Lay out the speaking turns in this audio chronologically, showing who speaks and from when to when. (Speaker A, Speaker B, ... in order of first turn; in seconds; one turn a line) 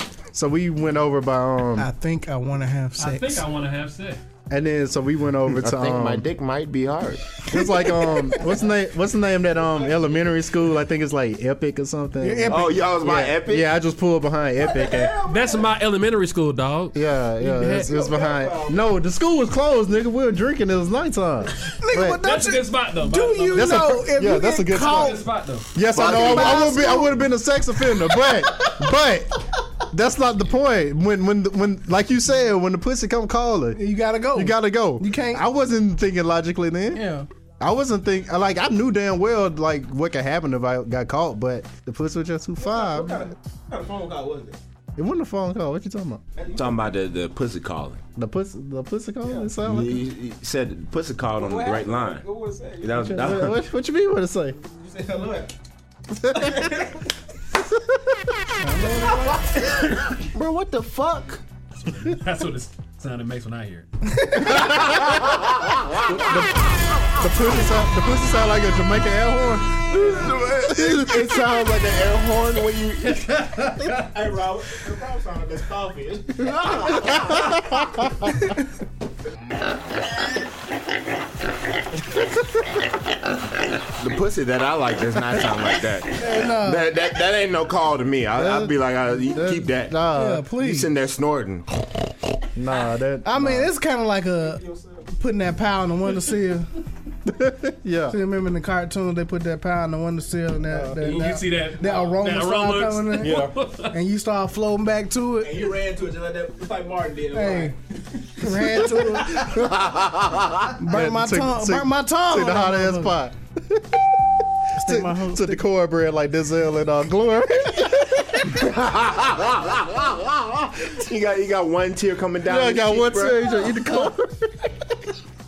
Speaker A: 0.3-1.9
Speaker B: 1.8-3.5
Speaker C: 3.0-4.2
Speaker A: 4.5-6.3
Speaker D: 5.5-7.4
Speaker A: 7.5-15.2
Speaker B: 12.2-12.9
Speaker D: 12.5-13.7
Speaker E: 14.6-15.7
Speaker C: 15.3-17.9
Speaker A: 16.9-22.2
Speaker E: 17.8-18.8
Speaker B: 21.8-25.2
Speaker C: 22.2-24.0
Speaker A: 23.5-33.8
Speaker C: 24.7-25.7
Speaker D: 25.9-27.1
Speaker B: 26.0-27.2
Speaker B: 28.2-28.7
Speaker B: 33.8-35.4
Speaker A: 34.3-37.0
Speaker B: 36.9-37.3
Speaker A: 37.6-43.3
Speaker E: 42.6-44.6
Speaker A: 45.0-46.2
Speaker E: 46.4-46.9
Speaker D: 46.5-48.0
Speaker A: 48.2-50.1
Speaker E: 49.2-49.6
Speaker D: 49.6-52.3
Speaker E: 51.3-53.4
Speaker D: 52.8-53.6
Speaker A: 53.0-54.6
Speaker E: 54.6-55.5
Speaker E: 56.2-57.1
Speaker B: 58.6-59.4
Speaker E: 59.0-59.5
Speaker D: 60.1-61.4
Speaker C: 61.8-63.9
Speaker B: 64.2-64.5
Speaker D: 64.4-66.5
Speaker A: 66.2-69.8
Speaker D: 69.9-73.7
Speaker A: 70.6-71.4
Speaker E: 74.0-78.2
Speaker D: 76.5-77.2
Speaker D: 83.8-90.0
Speaker B: 86.2-86.9
Speaker A: 88.3-90.5
Speaker B: 90.1-90.9
Speaker D: 90.5-91.9
Speaker A: 92.5-93.7
Speaker B: 93.2-94.6
Speaker E: 94.4-95.1
Speaker B: 95.2-96.7
Speaker A: 97.2-98.2
Speaker B: 98.1-105.7
Speaker A: 100.7-101.2
Speaker C: 101.0-104.0
Speaker A: 103.2-103.6
Speaker E: 105.4-108.4
Speaker B: 107.3-107.8
Speaker B: 108.4-109.5
Speaker D: 109.4-110.8
Speaker B: 110.8-113.2
Speaker A: 110.9-114.2
Speaker B: 114.8-115.6
Speaker A: 114.8-118.3
Speaker D: 118.3-123.8
Speaker A: 122.4-124.7